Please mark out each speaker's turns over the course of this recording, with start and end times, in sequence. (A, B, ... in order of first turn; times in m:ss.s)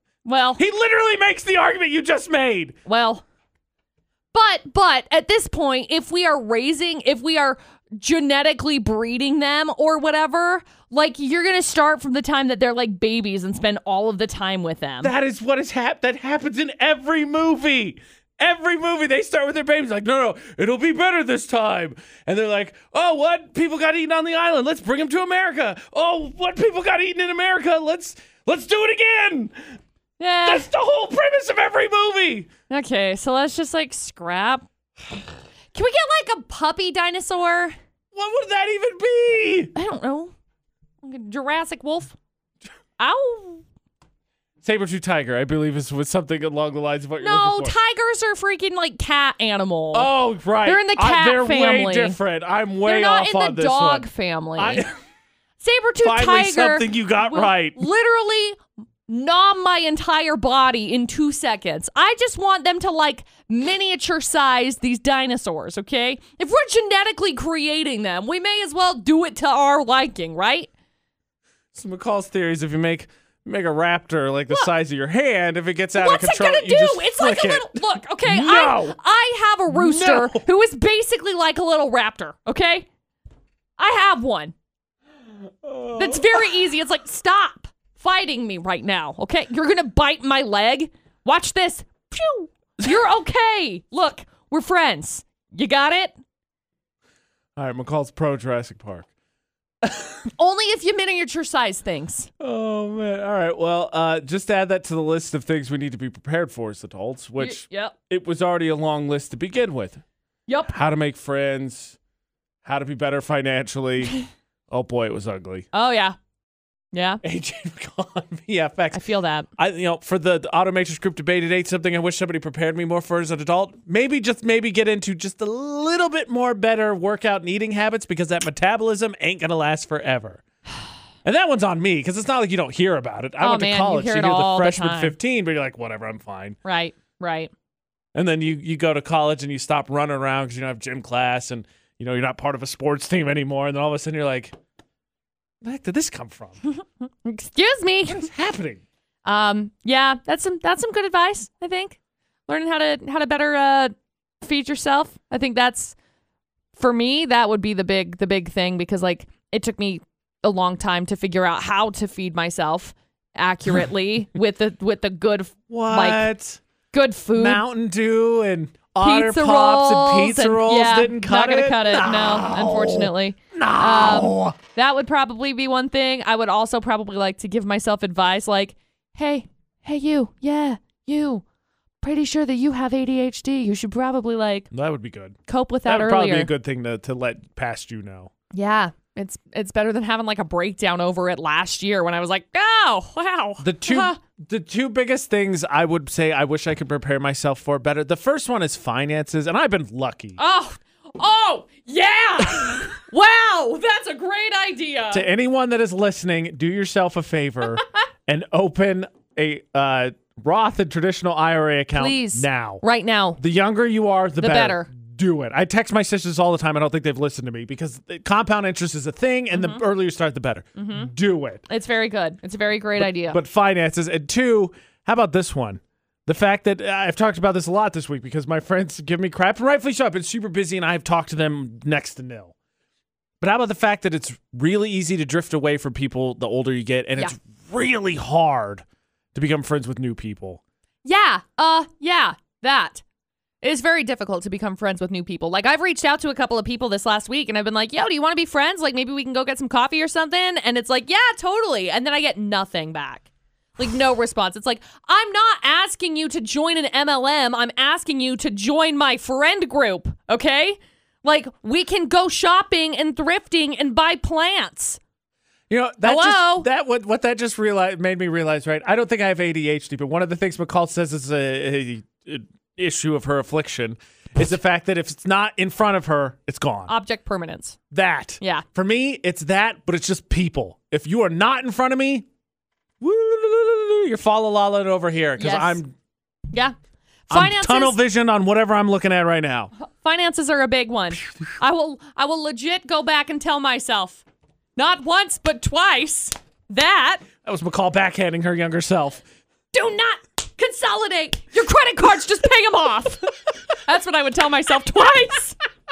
0:00.2-0:00.6 A
0:00.6-0:02.8 B
0:02.9-0:03.2 A
0:04.3-0:15.1 A
0:15.0-0:29.6 B
0:30.2-0:30.7 A
0:30.4-0:32.5 B
0:32.7-0:34.6 A
0:35.7-0:37.8 A
0:38.1-0:39.7 B
0:39.8-0:40.3 A
0:41.0-0:42.2 A
0:43.0-0:43.6 A
0:44.6-0:47.8 B
0:47.2-0:50.1 A
0:49.9-0:55.0 B
0:50.6-0:52.2 A
0:52.8-0:54.8 A
0:55.6-1:10.7 A
0:56.0-0:57.8 B
1:11.7-1:19.0 B
1:16.0-1:22.9 A
1:19.7-1:20.4 B
1:23.8-1:24.5 A
1:25.6-1:26.5 B
1:26.0-1:36.2 A
1:37.6-1:39.1 B
1:39.8-1:40.2 B
1:40.4-1:42.3 A
1:42.4-1:50.0 B
1:47.4-1:48.0 A
1:50.5-1:50.7 A
1:50.7-1:52.0 B
1:52.6-1:55.7 B
1:55.7-1:56.2 A
1:56.9-1:57.2 A
1:57.2-1:59.0 B
1:58.9-1:59.5 A
1:59.6-2:10.4 B
2:11.2-2:16.6 B
2:13.4-2:15.2 A
2:16.6-2:17.5 A
2:18.2-2:24.6 B
2:25.6-2:26.6 B
2:27.2-2:28.3 A
2:28.1-2:28.8 B
2:29.2-2:36.0 A
2:36.8-2:46.3 A
2:45.7-2:46.6 B
2:46.9-2:47.6 A
2:47.4-2:54.6 B
2:49.0-3:01.4 A
3:02.0-3:04.7 A
3:04.7-3:08.3 B
3:05.5-3:06.5 A
3:08.5-3:14.2 A
3:13.6-3:20.4 B
3:20.4-3:25.3 A
3:25.1-3:32.8 B
3:32.0-3:33.4 A
3:33.4-3:41.7 B
3:34.4-3:34.9 A
3:39.5-3:39.8 A
3:40.8-3:41.1 A
3:41.7-3:43.4 A
3:43.0-3:52.5 B
3:53.4-4:00.6 B
4:01.0-4:03.0 A
4:03.6-4:25.0 A
4:25.7-4:36.9 B
4:26.0-4:26.7 A
4:36.9-4:37.8 A
4:37.9-4:42.3 B
4:43.0-4:45.9 B
4:45.4-4:45.8 A
4:47.3-4:48.0 A
4:47.3-4:49.7 B
4:49.8-4:54.2 A
4:54.8-4:57.3 A
4:57.4-4:59.2 B
4:59.7-5:05.6 A